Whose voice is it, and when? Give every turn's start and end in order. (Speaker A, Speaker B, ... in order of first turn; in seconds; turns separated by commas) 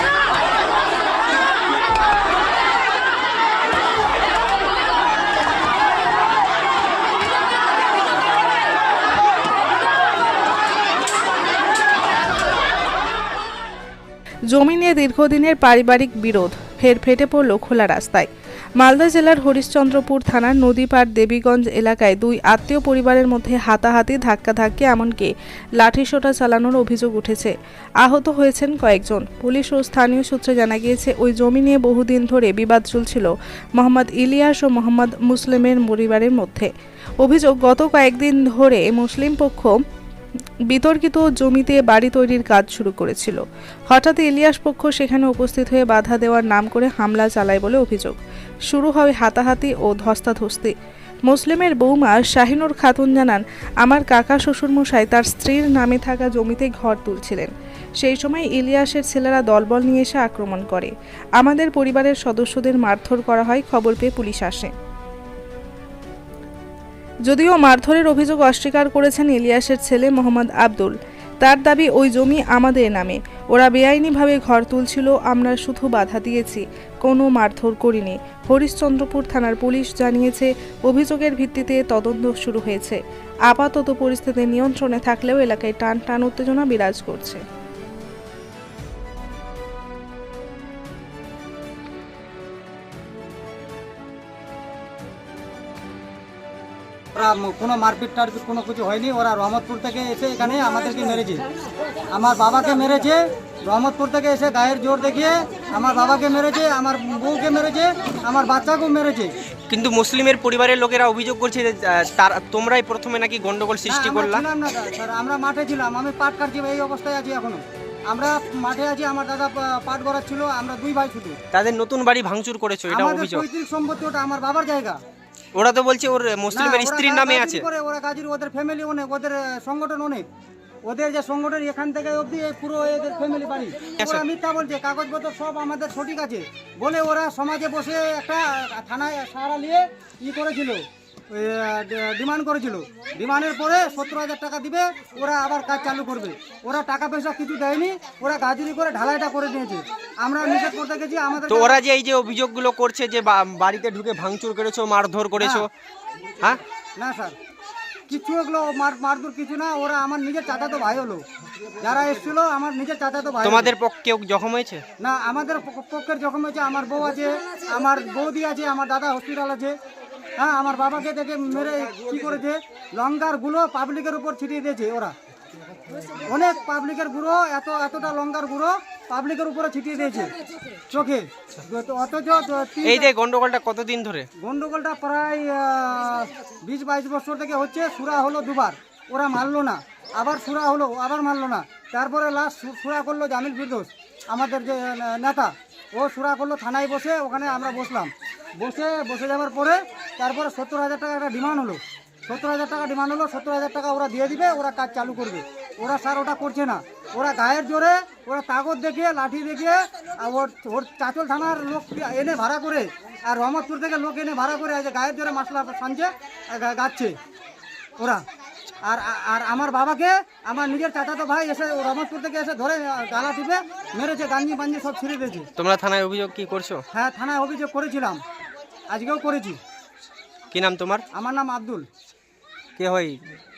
Speaker A: 14.5-18.3, Speaker A: 18.8-36.7, Speaker A: 37.2-39.8, Speaker A: 40.7-50.7, Speaker A: 51.3-64.7, Speaker A: 67.3-87.4, Speaker B: 97.1-101.4, Speaker B: 102.1-109.3, Speaker C: 109.7-114.4, Speaker B: 113.8-121.4, Speaker C: 121.5-123.4, Speaker B: 122.9-125.0, Speaker C: 125.5-127.7, Speaker B: 126.5-130.3, Speaker B: 130.8-151.8, Speaker C: 151.5-155.7, Speaker B: 155.4-155.7, Speaker B: 157.0-157.3, Speaker B: 158.1-161.2, Speaker B: 161.8-163.7, Speaker C: 163.4-164.8, Speaker B: 165.0-169.8, Speaker B: 170.4-175.1, Speaker B: 176.2-180.3, Speaker B: 180.9-183.1, Speaker C: 182.8-184.3, Speaker B: 184.4-217.2, Speaker B: 218.0-218.2, Speaker B: 218.8-225.5, Speaker C: 225.6-226.8, Speaker B: 226.9-228.2, Speaker B: 228.9-229.6, Speaker C: 230.5-231.0, Speaker B: 231.1-231.9, Speaker C: 232.8-233.3